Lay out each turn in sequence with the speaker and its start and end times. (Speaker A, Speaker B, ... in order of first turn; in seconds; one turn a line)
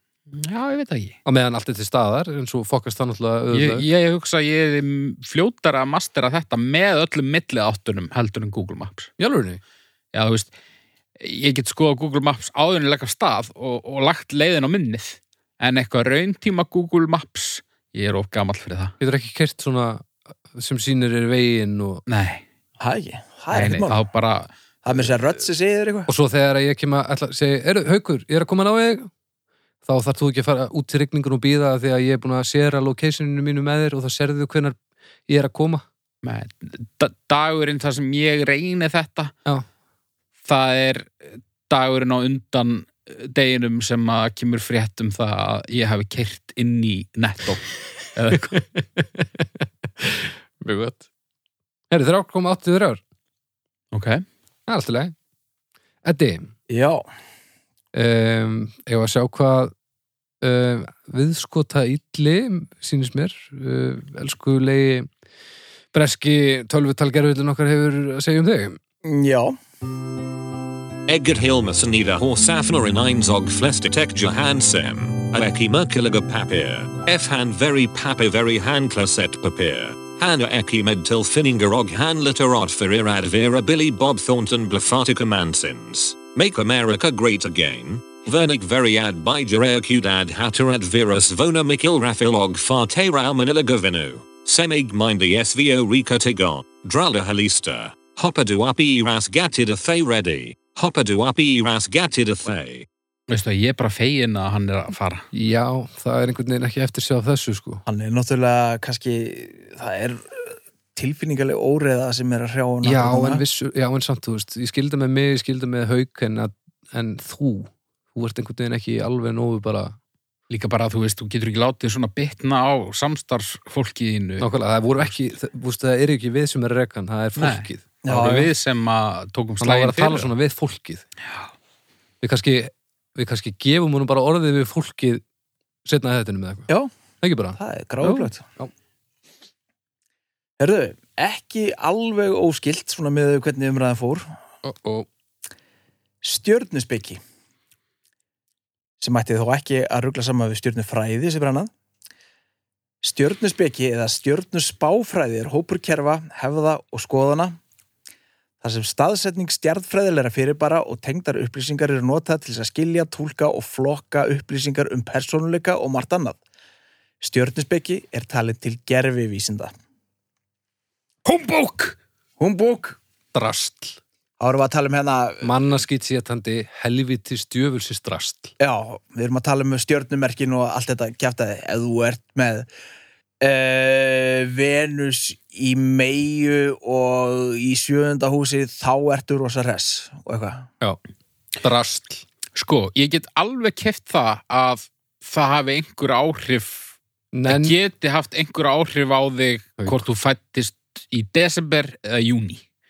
Speaker A: 0.3-1.2
Speaker B: 1.2-3.8
Speaker A: 3.5-9.1
Speaker B: 9.2-9.6
Speaker A: 10.1-10.5
Speaker A: 11.2-18.9
Speaker B: 19.0-22.0
Speaker A: 22.1-22.4
Speaker C: 22.8-24.0
Speaker A: 23.5-24.5
Speaker C: 24.8-26.1
Speaker B: 26.1-29.1
Speaker B: 29.8-34.8
Speaker B: 35.3-35.8
Speaker A: 36.2-39.3
Speaker A: 40.5-48.5
Speaker B: 48.3-51.0
Speaker B: 51.9-53.0
Speaker A: 53.9-54.2
Speaker B: 54.7-55.1
Speaker B: 56.0-56.5
Speaker C: 56.7-57.0
Speaker B: 57.9-59.7
Speaker B: 60.4-65.1
Speaker B: 65.9-68.8
Speaker C: 69.0-69.5
Speaker D: 71.1-102.8
Speaker A: 103.3-105.2
Speaker B: 105.3-107.8
Speaker C: 107.8-113.4
Speaker B: 112.8-120.0
Speaker A: 120.5-124.5
Speaker B: 124.4-128.0
Speaker A: 127.3-130.3
Speaker C: 128.0-128.5
Speaker B: 129.6-131.0
Speaker B: 132.2-135.2
Speaker B: 135.8-136.7
Speaker B: 137.2-138.7
Speaker C: 137.6-138.4
Speaker C: 140.6-144.3
Speaker B: 144.6-145.1
Speaker C: 146.2-147.2
Speaker C: 149.0-151.7
Speaker C: 153.0-157.6
Speaker C: 158.6-166.4
Speaker C: 167.2-169.7
Speaker C: 172.4-173.0
Speaker B: 173.3-174.0
Speaker C: 174.4-175.5
Speaker B: 175.4-178.5
Speaker C: 178.6-182.7
Speaker C: 183.4-190.7
Speaker B: 191.6-192.2
Speaker A: 192.5-196.9
Speaker B: 197.3-197.8
Speaker A: 197.5-202.6